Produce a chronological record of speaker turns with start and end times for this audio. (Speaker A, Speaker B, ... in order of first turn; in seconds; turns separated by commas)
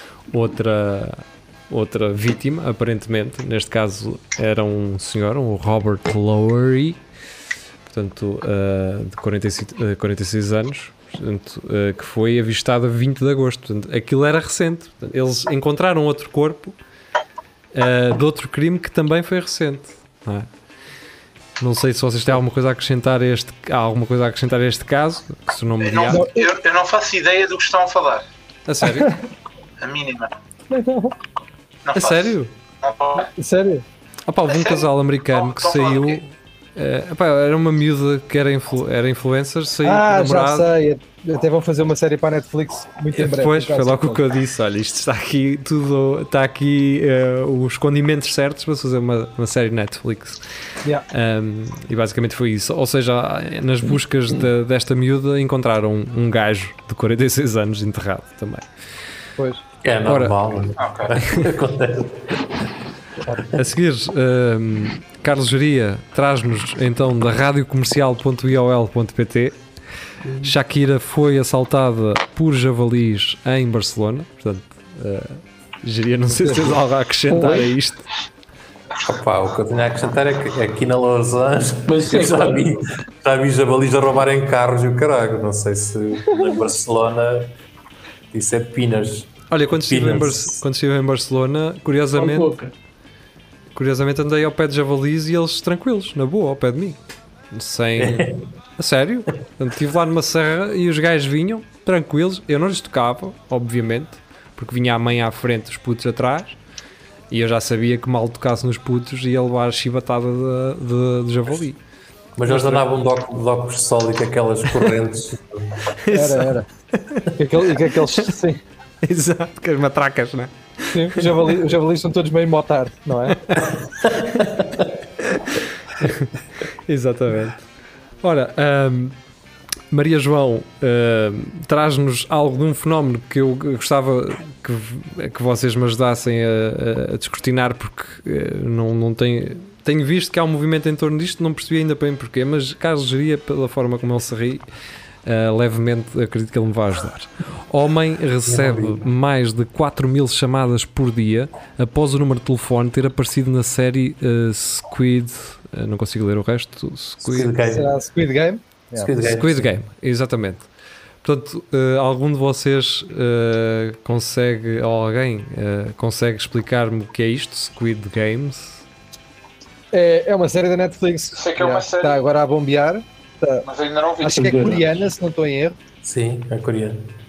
Speaker A: 0.3-7.0, Speaker A: 7.9-16.8, Speaker A: 17.7-20.5, Speaker A: 21.6-26.2, Speaker B: 25.8-28.3, Speaker C: 26.1-26.5, Speaker A: 28.7-29.2, Speaker C: 28.8-29.2, Speaker B: 29.8-30.3, Speaker C: 30.7-31.1, Speaker B: 31.9-33.3, Speaker A: 31.9-32.5, Speaker C: 33.3-33.8, Speaker A: 34.3-40.7, Speaker B: 34.5-36.2, Speaker C: 39.8-44.2, Speaker A: 43.1-50.4, Speaker A: 51.1-58.7, Speaker D: 59.8-62.5, Speaker A: 60.1-60.4, Speaker B: 60.8-61.2, Speaker A: 63.5-69.6, Speaker D: 70.2-70.5, Speaker A: 70.4-78.0, Speaker C: 76.3-76.8, Speaker E: 77.4-77.7, Speaker D: 79.0-87.5, Speaker E: 81.9-82.8, Speaker C: 86.3-86.5, Speaker D: 88.3-90.6, Speaker A: 89.5-92.5, Speaker E: 92.2-92.7, Speaker A: 93.7-97.0, Speaker A: 97.5-106.6, Speaker D: 98.0-98.5, Speaker A: 107.3-111.8, Speaker D: 112.4-115.9, Speaker A: 112.5-112.8, Speaker A: 116.0-117.3, Speaker C: 116.1-116.7, Speaker C: 117.3-118.6, Speaker A: 119.0-121.5, Speaker C: 120.9-123.4, Speaker A: 123.3-123.7, Speaker D: 124.0-124.9, Speaker A: 125.2-127.6, Speaker A: 128.2-129.2, Speaker A: 129.9-144.7, Speaker A: 145.3-157.5, Speaker D: 148.5-149.1, Speaker D: 157.2-157.9, Speaker C: 157.7-159.1, Speaker D: 159.0-159.7, Speaker A: 159.2-160.7, Speaker A: 161.2-168.8, Speaker C: 169.9-173.7, Speaker B: 171.4-172.2, Speaker B: 173.7-174.8, Speaker C: 174.2-175.8, Speaker E: 174.4-174.8, Speaker D: 176.0-177.1